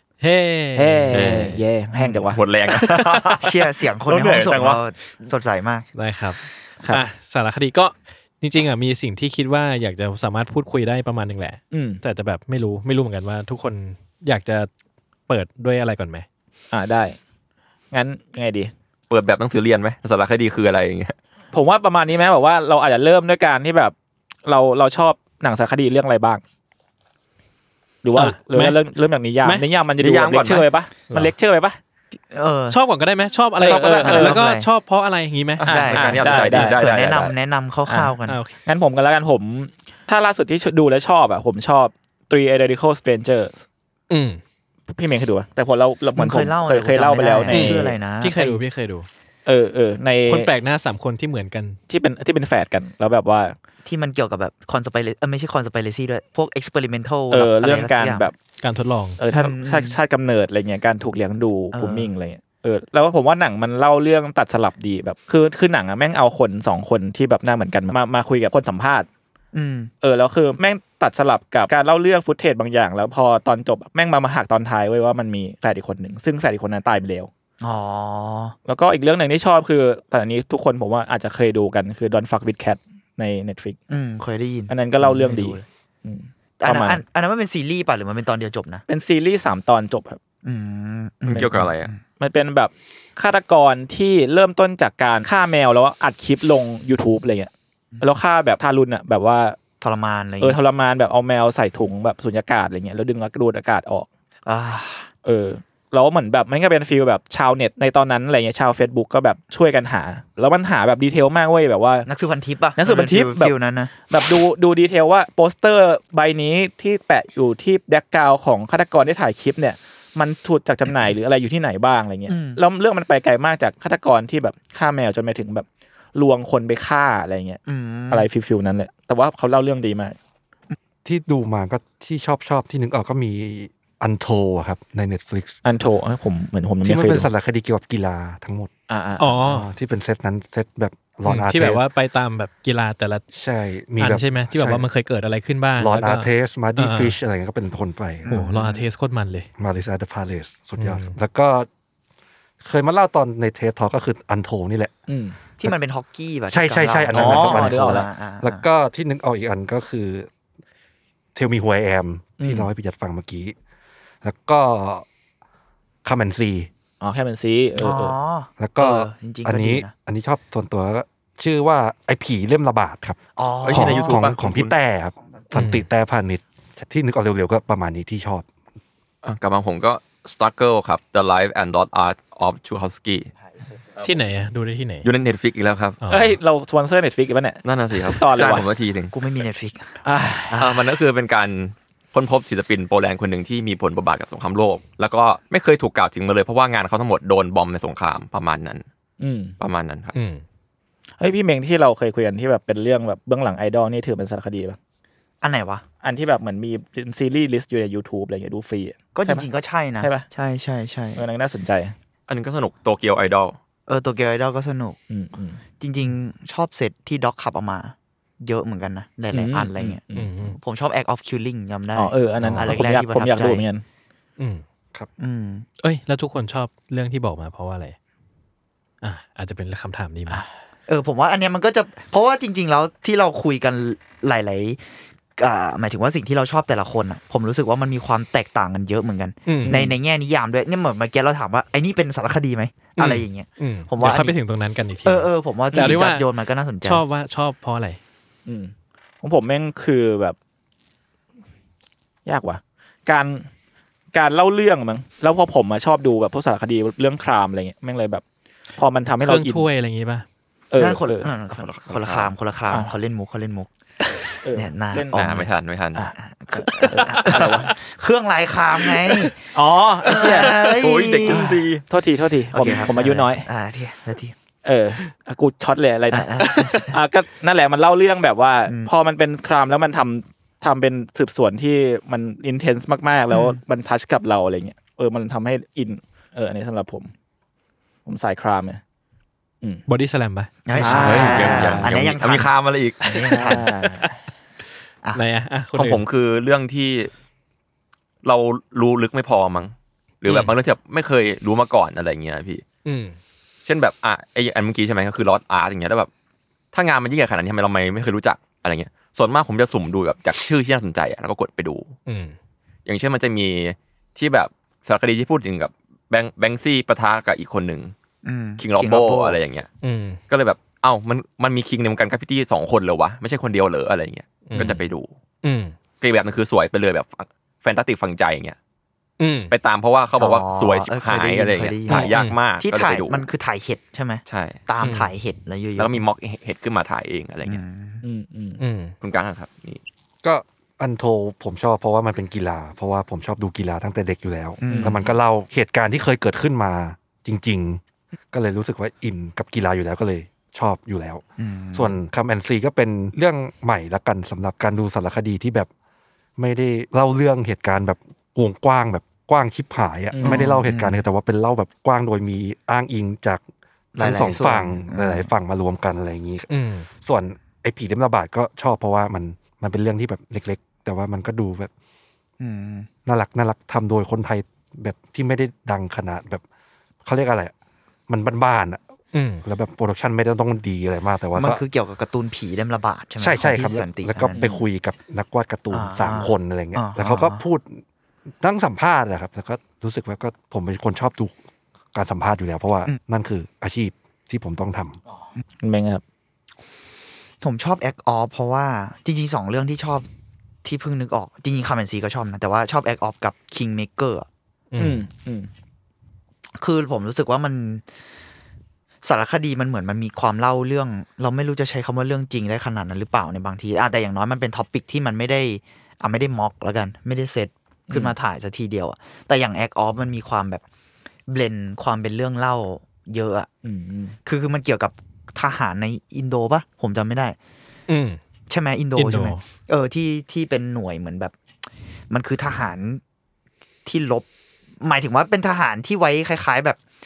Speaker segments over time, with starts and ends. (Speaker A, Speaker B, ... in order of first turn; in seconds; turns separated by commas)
Speaker A: 0.2-1.4, Speaker B: 0.8-2.4, Speaker C: 1.1-1.6, Speaker D: 1.9-2.3, Speaker C: 2.3-4.8, Speaker D: 3.4-5.9, Speaker A: 6.0-14.7, Speaker B: 11.7-12.0, Speaker A: 15.3-16.3, Speaker B: 16.7-17.2, Speaker B: 17.9-18.7, Speaker C: 19.1-21.2, Speaker B: 21.5-23.9, Speaker B: 24.4-26.4, Speaker B: 28.0-31.8, Speaker A: 28.1-28.8, Speaker A: 29.4-29.7, Speaker C: 30.0-30.7, Speaker D: 32.3-32.8, Speaker A: 32.7-35.7, Speaker B: 33.6-34.4, Speaker D: 33.6-34.7, Speaker C: 35.6-37.3, Speaker B: 35.6-37.1, Speaker D: 35.7-38.4, Speaker B: 37.9-43.6, Speaker A: 38.3-38.5, Speaker A: 44.1-44.4, Speaker B: 44.9-48.0, Speaker D: 46.1-48.6, Speaker A: 47.5-49.1, Speaker B: 49.5-50.5, Speaker A: 50.3-51.8, Speaker B: 51.9-53.5, Speaker D: 53.9-58.3, Speaker B: 57.3-58.4, Speaker A: 58.6-59.2, Speaker B: 59.2-69.1, Speaker D: 59.3-60.0, Speaker D: 61.7-62.1, Speaker D: 69.5-69.9, Speaker B: 70.0-77.3, Speaker D: 77.6-78.6, Speaker B: 78.7-83.8, Speaker D: 83.9-85.7, Speaker B: 84.7-87.0, Speaker D: 86.6-88.8, Speaker B: 88.9-90.2, Speaker D: 90.4-92.0, Speaker C: 91.2-91.9, Speaker B: 92.2-97.5, Speaker B: 98.0-99.6, Speaker D: 99.8-100.6, Speaker B: 100.4-104.1, Speaker D: 104.5-105.1, Speaker B: 105.2-112.1, Speaker D: 112.1-113.9, Speaker B: 112.8-127.6, Speaker D: 122.3-122.6, Speaker D: 127.7-128.3, Speaker B: 128.1-130.2, Speaker E: 131.1-135.6, Speaker B: 135.7-137.3, Speaker E: 136.8-138.7, Speaker B: 138.9-139.4, Speaker A: 139.2-139.7, Speaker E: 139.4-141.8, Speaker A: 141.3-143.2, Speaker E: 143.3-144.9, Speaker A: 144.0-147.2, Speaker E: 145.8-148.3, Speaker D: 148.2-148.8, Speaker A: 148.3-149.5, Speaker E: 149.6-151.7, Speaker A: 150.8-151.2, Speaker E: 152.6-155.0, Speaker B: 155.1-155.4, Speaker D: 155.6-158.7, Speaker E: 156.5-160.3, Speaker B: 157.1-158.1, Speaker E: 161.3-163.6, Speaker B: 162.4-162.7, Speaker E: 164.2-165.1, Speaker E: 166.0-166.7, Speaker B: 167.0-168.2, Speaker D: 167.8-169.9, Speaker E: 168.6-178.5, Speaker D: 173.4-174.3, Speaker C: 173.6-174.7, Speaker A: 175.6-175.9, Speaker C: 179.2-183.3, Speaker A: 184.0-185.1, Speaker C: 185.0-186.0, Speaker A: 186.0-186.4, Speaker B: 186.1-188.7, Speaker C: 187.6-189.1, Speaker D: 189.1-190.9, Speaker B: 190.0-190.6, Speaker C: 190.6-198.8, Speaker B: 199.2-199.5, Speaker C: 199.6-200.1, Speaker A: 200.1-200.4, Speaker B: 201.2-204.8, Speaker D: 205.4-205.8, Speaker B: 206.0-209.5, Speaker D: 209.1-211.3, Speaker B: 210.0-210.3, Speaker B: 211.2-211.9, Speaker C: 212.3-213.6, Speaker D: 213.9-215.0, Speaker B: 215.1-215.6, Speaker D: 215.8-223.7, Speaker B: 219.3-220.3, Speaker A: 220.1-220.6, Speaker B: 221.9-223.8, Speaker A: 224.4-224.6, Speaker D: 225.2-225.7, Speaker A: 225.8-228.0, Speaker A: 229.0-230.4, Speaker D: 230.9-234.8, Speaker D: 235.4-244.4, Speaker A: 239.5-239.9, Speaker B: 239.6-240.0, Speaker A: 243.0-246.3, Speaker D: 245.1-247.0, Speaker A: 246.8-248.0, Speaker B: 248.5-250.4, Speaker B: 252.2-253.5, Speaker B: 254.1-258.2, Speaker B: 258.8-259.7, Speaker A: 259.2-260.2, Speaker B: 260.7-261.3, Speaker D: 260.8-263.7, Speaker C: 261.6-262.3, Speaker B: 264.4-265.2, Speaker D: 264.5-265.5, Speaker C: 265.1-266.0, Speaker D: 266.2-269.4, Speaker B: 266.7-267.7, Speaker A: 266.9-267.7, Speaker B: 269.5-270.8, Speaker D: 270.0-271.7, Speaker C: 270.3-271.9, Speaker B: 271.9-273.5, Speaker D: 272.5-274.4, Speaker B: 274.6-287.1, Speaker D: 276.1-277.0, Speaker D: 283.3-283.6, Speaker B: 288.1-288.8, Speaker A: 289.9-291.6, Speaker D: 290.7-292.5, Speaker B: 290.8-292.0, Speaker C: 290.8-293.6, Speaker D: 293.0-293.7, Speaker B: 293.2-294.2, Speaker A: 295.1-296.0, Speaker C: 295.7-297.1, Speaker C: 298.2-302.6, Speaker A: 300.3-300.6, Speaker A: 302.9-303.2, Speaker C: 303.6-306.1, Speaker C: 306.7-311.9, Speaker A: 312.1-312.4, Speaker C: 312.9-317.9, Speaker D: 318.2-319.4, Speaker C: 318.6-319.7, Speaker A: 319.8-320.2, Speaker C: 320.3-325.1, Speaker A: 324.5-324.8, Speaker A: 325.4-325.8, Speaker C: 326.0-328.6, Speaker A: 329.2-329.5, Speaker C: 329.5-333.3, Speaker D: 330.2-336.0, Speaker A: 331.9-332.4, Speaker C: 334.3-334.6, Speaker A: 334.8-335.1, Speaker C: 335.8-337.6, Speaker D: 337.4-338.0, Speaker B: 338.0-338.6, Speaker A: 338.6-338.9, Speaker C: 339.0-339.8, Speaker E: 340.2-347.8, Speaker D: 344.6-345.1, Speaker B: 344.7-345.0, Speaker E: 348.3-355.7, Speaker D: 351.4-351.9, Speaker E: 356.4-363.4, Speaker B: 360.1-360.6, Speaker D: 360.2-361.0, Speaker D: 363.9-365.3, Speaker E: 364.0-366.5, Speaker A: 366.5-366.9, Speaker E: 367.0-371.7, Speaker D: 372.4-372.9, Speaker E: 373.1-376.4, Speaker E: 377.0-377.5, Speaker E: 378.1-378.8, Speaker A: 379.1-379.4, Speaker E: 379.4-381.6, Speaker D: 381.4-384.4, Speaker E: 383.2-387.8, Speaker B: 384.4-384.6, Speaker D: 385.7-387.4, Speaker E: 388.4-391.4, Speaker E: 391.9-395.0, Speaker B: 395.6-396.0, Speaker D: 397.4-400.1, Speaker D: 400.6-404.3, Speaker A: 404.7-405.1, Speaker B: 404.8-405.5, Speaker D: 406.6-407.8, Speaker D: 409.0-420.6, Speaker B: 417.9-418.2, Speaker D: 421.3-423.5, Speaker B: 423.6-424.2, Speaker D: 424.2-427.4, Speaker A: 427.9-428.2, Speaker D: 428.5-431.3, Speaker A: 429.0-429.4, Speaker D: 432.1-433.0, Speaker D: 433.9-434.3, Speaker D: 434.8-436.8